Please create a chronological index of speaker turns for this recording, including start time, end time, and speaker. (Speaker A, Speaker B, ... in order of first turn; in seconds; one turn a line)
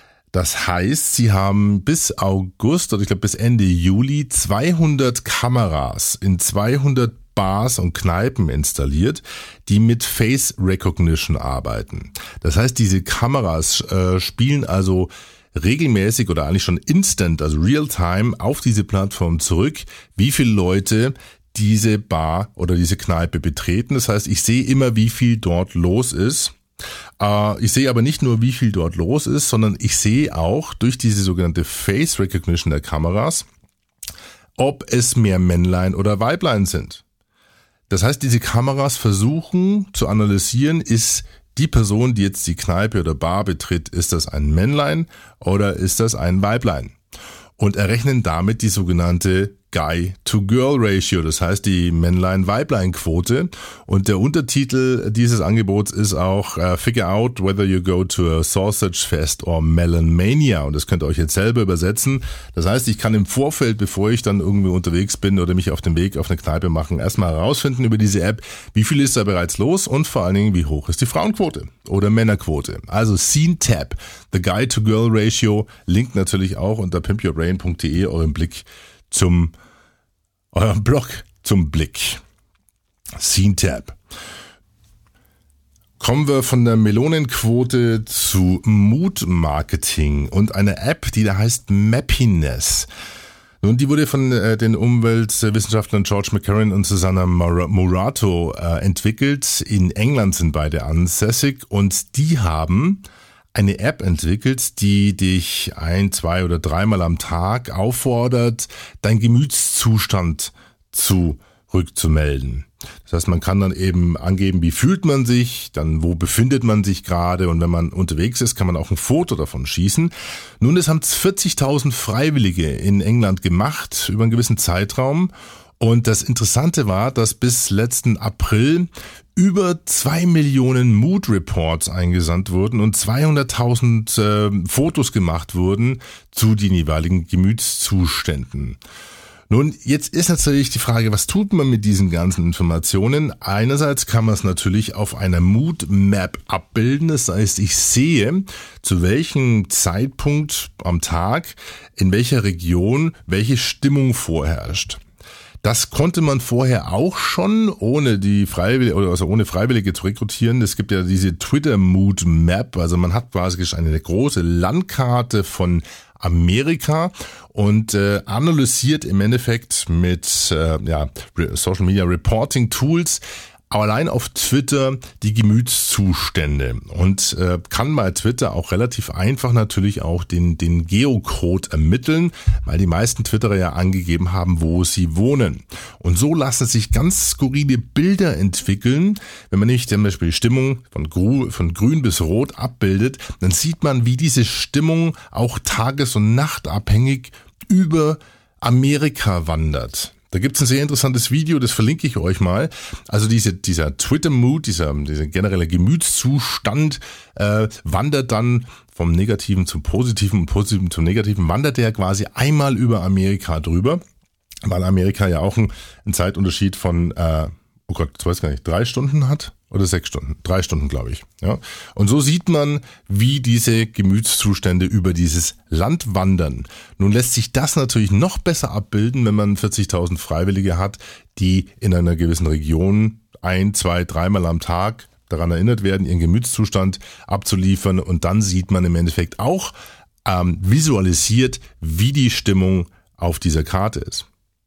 Speaker A: 0.3-26.6
Speaker A: 27.2-33.5
Speaker A: 34.6-37.0
Speaker A: 37.9-47.0
Speaker A: 47.6-79.5
Speaker A: 80.5-82.2
Speaker A: 83.2-84.0
Speaker A: 86.0-92.9
Speaker A: 93.6-138.8
Speaker A: 139.5-155.0
Speaker A: 155.6-214.0
Speaker A: 214.7-239.7
Speaker A: 240.2-244.3